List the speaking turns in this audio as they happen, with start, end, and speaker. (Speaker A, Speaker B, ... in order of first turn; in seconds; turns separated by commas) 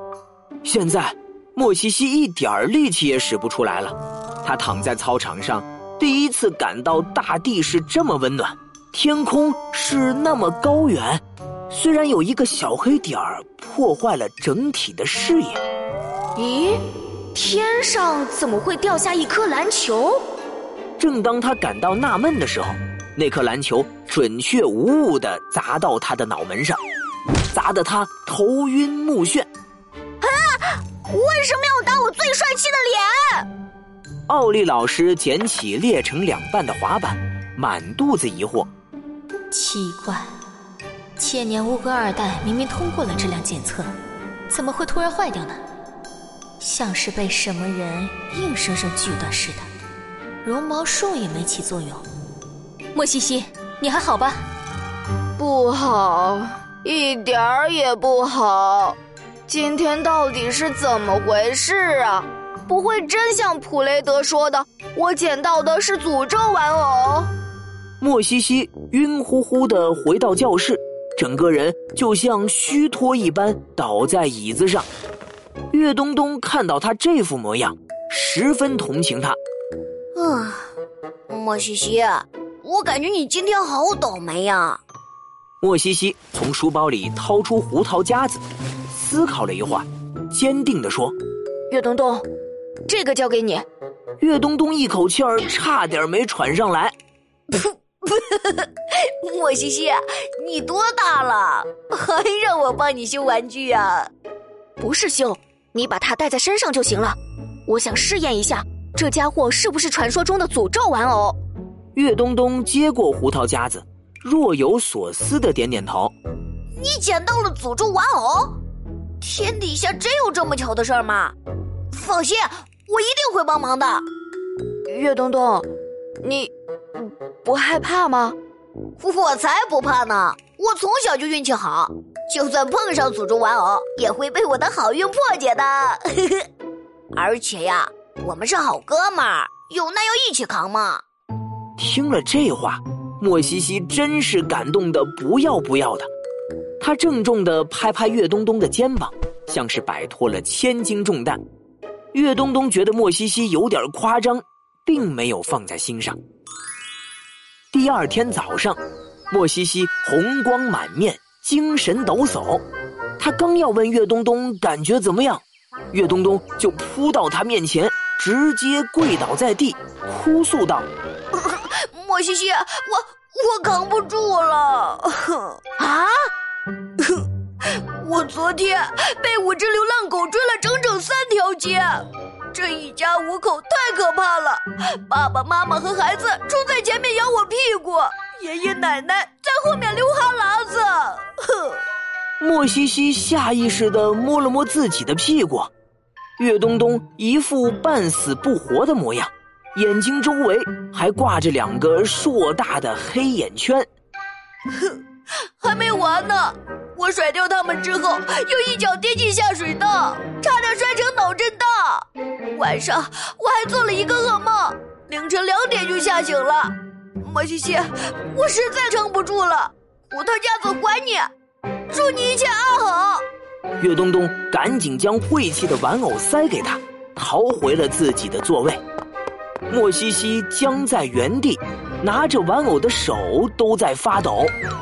Speaker A: 0.6-15.6, Speaker B: 16.4-16.8, Speaker B: 17.3-20.2, Speaker A: 21.0-26.8, Speaker A: 27.5-29.5, Speaker C: 30.2-33.5, Speaker A: 34.3-38.7, Speaker D: 39.5-40.3, Speaker D: 41.2-43.5, Speaker B: 43.1-43.5, Speaker B: 44.5-45.5, Speaker D: 44.9-45.2, Speaker B: 46.6-48.8, Speaker D: 47.2-47.8, Speaker D: 48.6-49.5, Speaker D: 50.7-51.8, Speaker B: 53.0-54.4, Speaker B: 55.4-67.3, Speaker A: 68.0-74.9, Speaker A: 75.7-79.4, Speaker C: 80.1-80.7, Speaker C: 81.3-84.8, Speaker A: 85.6-91.1, Speaker B: 91.7-92.2, Speaker B: 92.9-93.6, Speaker A: 94.2-96.9, Speaker C: 97.5-104.1, Speaker B: 104.8-111.4, Speaker A: 111.9-116.1, Speaker C: 116.7-118.6, Speaker C: 119.2-121.3, Speaker C: 121.9-124.0, Speaker B: 124.9-125.7, Speaker B: 126.2-128.4, Speaker C: 129.0-136.5, Speaker C: 137.1-141.0, Speaker A: 141.8-146.1, Speaker A: 146.8-151.4, Speaker A: 152.1-156.2, Speaker A: 157.7-158.8, Speaker A: 159.3-162.6, Speaker A: 163.2-170.9, Speaker C: 171.3-176.1, Speaker C: 177.0-191.8, Speaker A: 192.4-195.7, Speaker A: 196.4-203.9, Speaker C: 204.7-205.0, Speaker C: 205.6-221.3, Speaker C: 221.9-223.2, Speaker A: 223.8-228.8, Speaker A: 229.7-234.5